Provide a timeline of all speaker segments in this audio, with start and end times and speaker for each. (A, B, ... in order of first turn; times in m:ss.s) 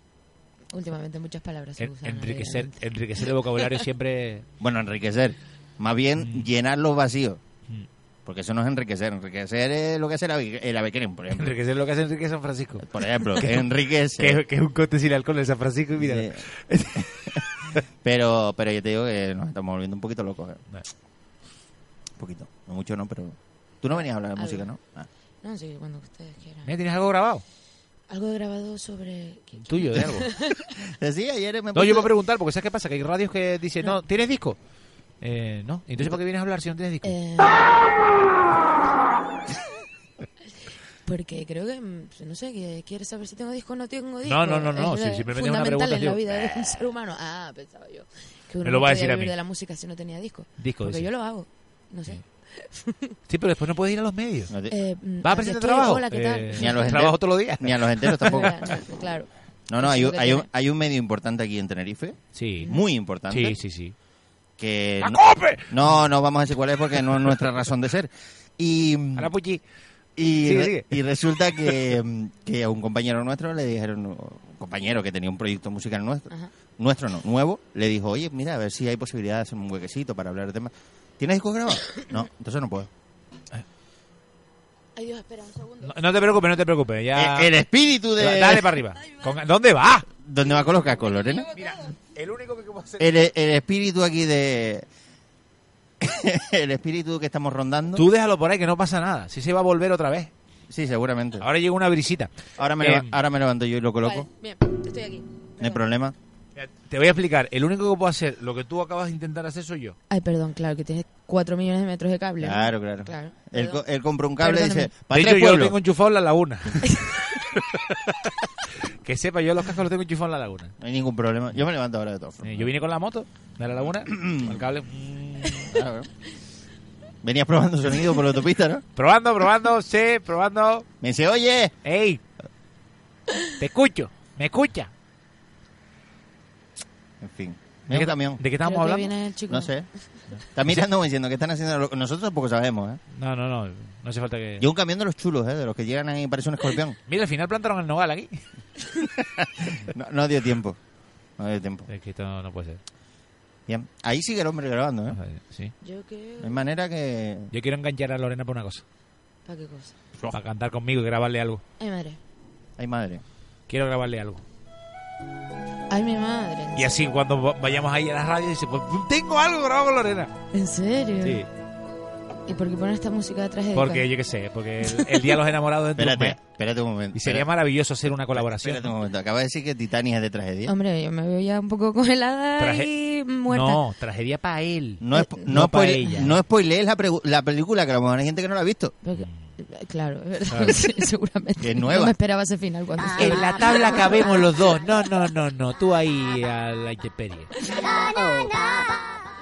0:00.7-0:02.7 A
0:01.8-0:04.5 B
0:04.6-0:07.4 C
0:06.2-0:06.4 B
0:08.2-0:11.5 C
0:11.3-0:13.7 B
0:12.8-0:14.4 C
0:14.2-0:17.8 B
0:16.0-0:16.4 C
0:16.9-0:17.4 C
0:18.0-0:20.6 C
0:22.2-0:25.1 C
0:24.4-0:24.7 A
0:25.4-0:26.7 A
0:26.6-0:27.4 B
0:28.1-0:30.7 A
0:29.6-0:30.3 B
0:30.7-0:32.1 C
0:31.7-0:34.6 B
0:35.2-0:37.1 B
0:37.0-0:37.7 A
0:41.0-0:53.2 A
0:44.2-0:46.8 B
0:48.6-0:49.3 B
0:50.6-0:51.1 B
0:53.3-0:54.5 B
0:54.5-0:54.8 C
0:54.7-0:57.0 A
0:55.2-0:58.5 B
0:56.5-0:58.7 C
0:58.2-1:00.4 A
0:59.7-1:03.6 C
1:02.3-1:02.7 B
1:03.3-1:03.9 B
1:04.6-1:09.3 C
1:05.0-1:05.9 B
1:09.2-1:09.6 B
1:10.2-1:22.9 C
1:10.4-1:10.9 B
1:25.0-1:25.9 A
1:25.8-1:27.5 B
1:27.1-1:28.7 C
1:28.2-1:30.1 B
1:30.2-1:31.5 C
1:31.5-1:33.2 B
1:33.0-1:34.8 C
1:36.0-1:38.0 C
1:37.9-1:40.3 B
1:40.7-1:41.4 C
1:41.4-1:43.2 B
1:42.6-1:44.3 C
1:44.0-1:45.8 A
1:45.6-1:46.2 C
1:46.6-1:50.0 B
1:50.1-1:53.8 A
1:52.4-1:55.8 C
1:54.4-1:54.9 A
1:55.1-2:00.7 B
2:00.8-2:02.7 C
2:02.4-2:05.7 B
2:03.8-2:04.6 C
2:05.6-2:06.1 C
2:07.2-2:08.8 C
2:09.0-2:10.9 B
2:11.0-2:11.7 C
2:11.8-2:12.2 B
2:13.6-2:14.9 B
2:17.2-2:18.4 C
2:17.9-2:19.1 B
2:18.6-2:19.7 A
2:19.5-2:19.8 C
2:20.5-2:23.0 C
2:23.1-2:24.7 B
2:24.6-2:27.0 C
2:27.1-2:28.4 B
2:29.0-2:30.8 C
2:31.4-2:31.9 C
2:31.9-2:32.8 B
2:33.7-2:35.2 C
2:35.1-2:35.7 B
2:35.8-2:36.6 A
2:36.4-2:37.5 C
2:37.5-2:38.8 B
2:39.4-2:39.9 A
2:40.3-2:41.6 B
2:41.8-2:42.2 A
2:42.8-2:43.2 C
2:43.7-2:44.4 B
2:45.9-2:47.0 A
2:46.8-2:50.3 B
2:50.5-2:51.4 A
2:51.2-2:51.5 B
2:52.5-2:54.1 A
2:53.7-2:56.4 B
2:54.8-2:55.3 A
2:56.0-2:57.5 C
2:57.1-2:58.9 B
2:58.3-3:00.7 C
3:00.6-3:03.8 A
3:02.6-3:02.9 B
3:03.5-3:06.4 B
3:05.0-3:08.9 C
3:05.1-3:05.5 A
3:09.0-3:14.4 A
3:09.1-3:09.4 B
3:10.5-3:10.8 B
3:11.6-3:12.1 C
3:13.2-3:17.5 B
3:17.7-3:19.1 A